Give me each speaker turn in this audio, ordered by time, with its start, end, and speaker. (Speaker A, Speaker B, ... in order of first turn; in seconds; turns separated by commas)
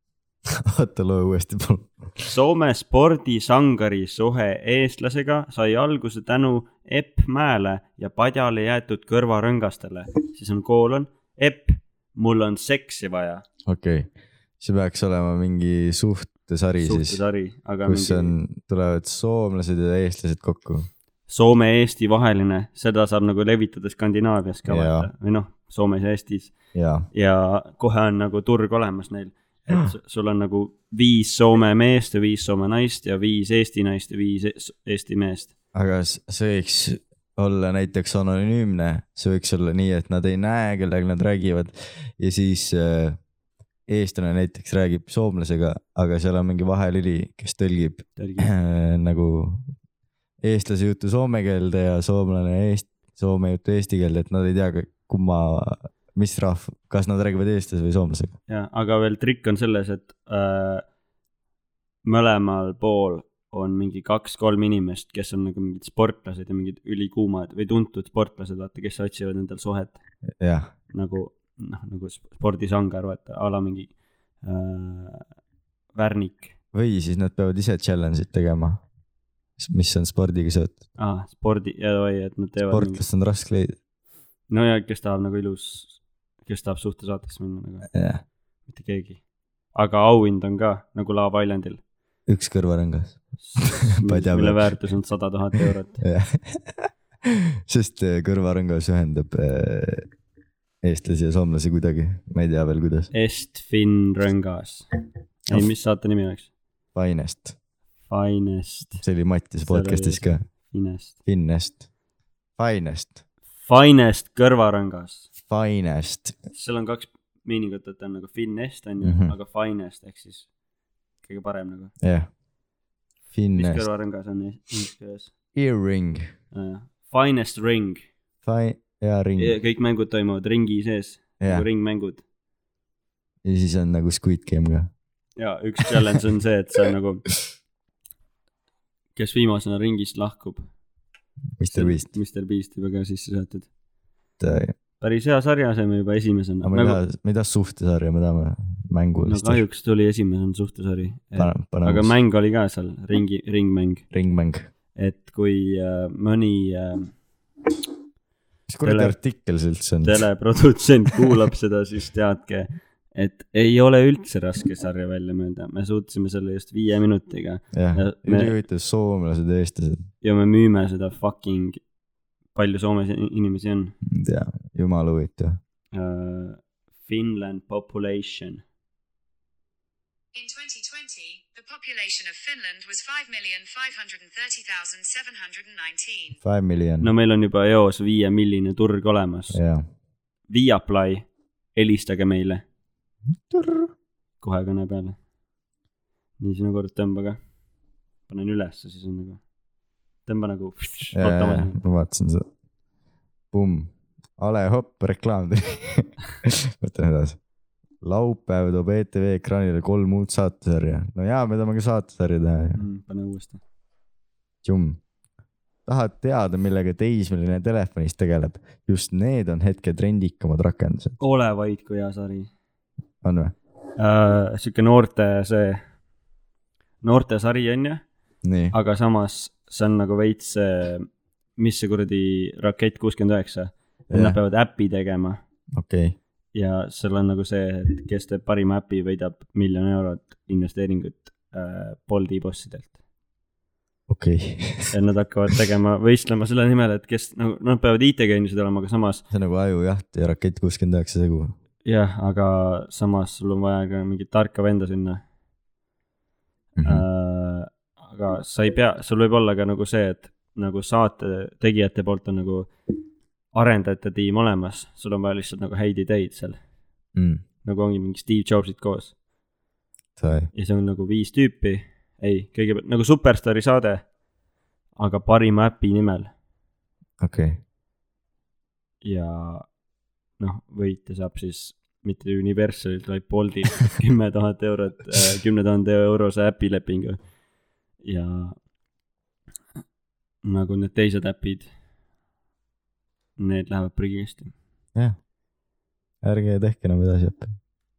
Speaker A: 0.5-2.3, Speaker B: 2.2-13.4, Speaker A: 13.7-17.2, Speaker B: 16.8-18.4, Speaker A: 17.9-20.9, Speaker B: 21.3-26.6, Speaker A: 24.7-25.1, Speaker A: 26.7-27.1, Speaker B: 27.1-35.5, Speaker A: 35.7-43.2, Speaker A: 43.9-49.7, Speaker B: 48.2-48.5, Speaker A: 50.4-58.4, Speaker B: 58.5-60.9, Speaker B: 62.0-70.0, Speaker A: 70.4-70.7, Speaker B: 70.9-75.3, Speaker B: 75.9-76.5, Speaker A: 76.7-78.8, Speaker A: 79.6-80.8, Speaker B: 81.0-83.0, Speaker A: 82.7-83.8, Speaker B: 84.5-87.9, Speaker A: 87.9-88.2, Speaker B: 88.7-89.2, Speaker B: 89.7-91.8, Speaker A: 92.3-94.9, Speaker B: 93.4-96.0, Speaker A: 96.0-100.1, Speaker A: 100.8-103.1, Speaker B: 103.1-104.9, Speaker B: 105.5-106.5, Speaker A: 106.9-107.5, Speaker B: 108.1-109.0, Speaker A: 109.0-110.5, Speaker B: 109.6-111.2, Speaker A: 111.2-111.8, Speaker A: 112.6-113.2, Speaker B: 113.6-115.3, Speaker A: 115.5-116.4, Speaker B: 116.5-120.5, Speaker A: 119.0-119.4, Speaker B: 121.2-121.9, Speaker A: 122.0-122.3, Speaker A: 123.3-123.9, Speaker B: 123.6-125.3, Speaker A: 125.5-126.3, Speaker B: 126.5-128.1, Speaker A: 128.4-129.6, Speaker B: 129.4-132.2, Speaker A: 133.4-134.9, Speaker B: 135.4-137.3, Speaker B: 139.2-140.7, Speaker A: 141.6-142.1, Speaker B: 141.7-143.7, Speaker A: 144.4-144.8, Speaker B: 145.0-147.0, Speaker A: 146.6-149.6, Speaker B: 149.3-154.1, Speaker A: 151.4-152.1, Speaker A: 154.1-154.7, Speaker B: 154.9-157.2, Speaker A: 158.7-160.2, Speaker B: 158.8-159.2, Speaker B: 160.0-168.6, Speaker A: 167.7-170.1, Speaker B: 170.2-171.8, Speaker B: 172.5-173.9, Speaker A: 174.0-175.6, Speaker B: 175.9-178.6, Speaker C: 180.3-186.4, Speaker A: 186.4-187.1, Speaker B: 187.0-189.6, Speaker A: 189.5-189.8, Speaker B: 190.5-192.6, Speaker A: 193.5-193.9, Speaker B: 194.4-195.2, Speaker B: 196.4-197.4, Speaker B: 198.3-199.4, Speaker B: 200.3-201.8, Speaker A: 201.2-202.5, Speaker A: 203.5-207.4, Speaker A: 208.0-212.8, Speaker B: 212.8-213.6, Speaker A: 214.6-215.0, Speaker A: 215.9-221.2, Speaker B: 221.2-222.5, Speaker A: 223.2-223.6, Speaker B: 224.0-225.8, Speaker B: 227.0-228.0, Speaker A: 228.4-228.8, Speaker B: 228.7-235.4, Speaker A: 234.1-234.4, Speaker A: 235.7-236.2, Speaker B: 236.5-242.9, Speaker A: 244.1-244.9, Speaker B: 244.9-249.2, Speaker A: 249.3-251.5, Speaker B: 251.8-255.2, Speaker A: 256.8-257.1, Speaker B: 256.8-262.7, Speaker B: 263.5-266.6, Speaker A: 267.1-267.4, Speaker B: 267.6-269.1, Speaker A: 270.2-270.5, Speaker B: 270.5-274.1, Speaker B: 275.0-276.3, Speaker A: 277.2-277.6, Speaker B: 279.0-279.7, Speaker B: 280.4-287.2, Speaker B: 288.0-288.6, Speaker B: 290.4-291.7, Speaker B: 293.4-294.6, Speaker A: 296.2-297.5